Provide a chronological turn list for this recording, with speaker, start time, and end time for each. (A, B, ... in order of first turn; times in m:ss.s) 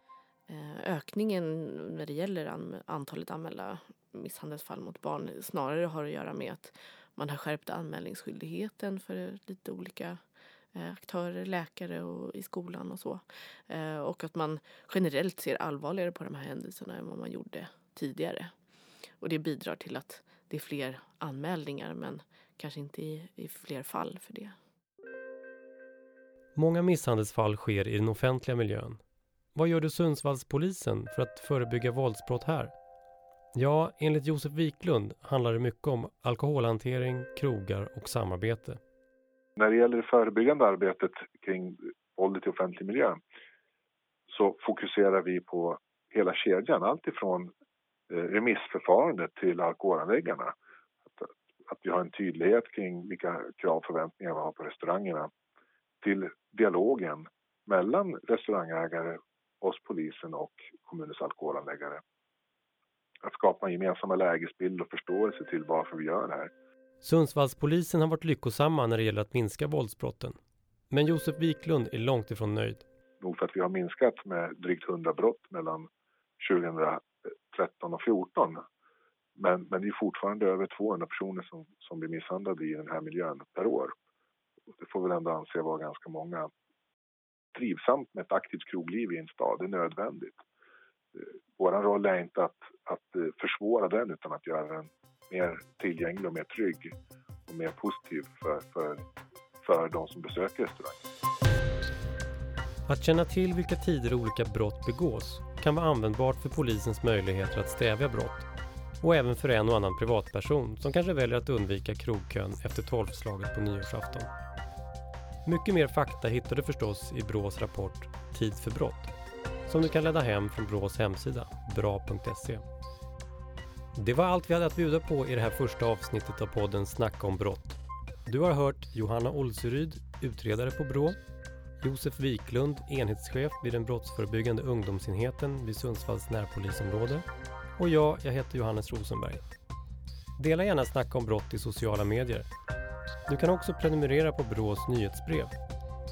0:00.5-0:10.2 A
0:10.8-0:18.5 A
0:19.2-0:24.6 A
0:26.6-0:29.0 B
0:29.6-0:32.7 B
0:33.6-0:38.8 B
0:39.6-0:43.2 C
0:44.3-0:47.5 C
0:48.1-0:50.5 C
0:51.1-0:55.3 C
0:56.0-1:02.0 C
1:03.2-1:06.5 C
1:07.0-1:10.4 B
1:10.9-1:12.9 B
1:13.2-1:15.9 C
1:16.4-1:18.6 C
1:19.4-1:23.9 C
1:24.7-1:26.5 C
1:27.5-1:30.4 C
1:31.2-1:36.9 C
1:37.5-1:39.0 C
1:39.6-1:41.0 C
1:42.9-1:48.5 B
1:49.0-1:54.3 B
1:55.4-1:59.1 B
1:59.7-2:02.6 B
2:04.0-2:11.2 B
2:11.8-2:17.3 B
2:17.8-2:19.4 B
2:20.4-2:22.5 B
2:23.3-2:25.6 B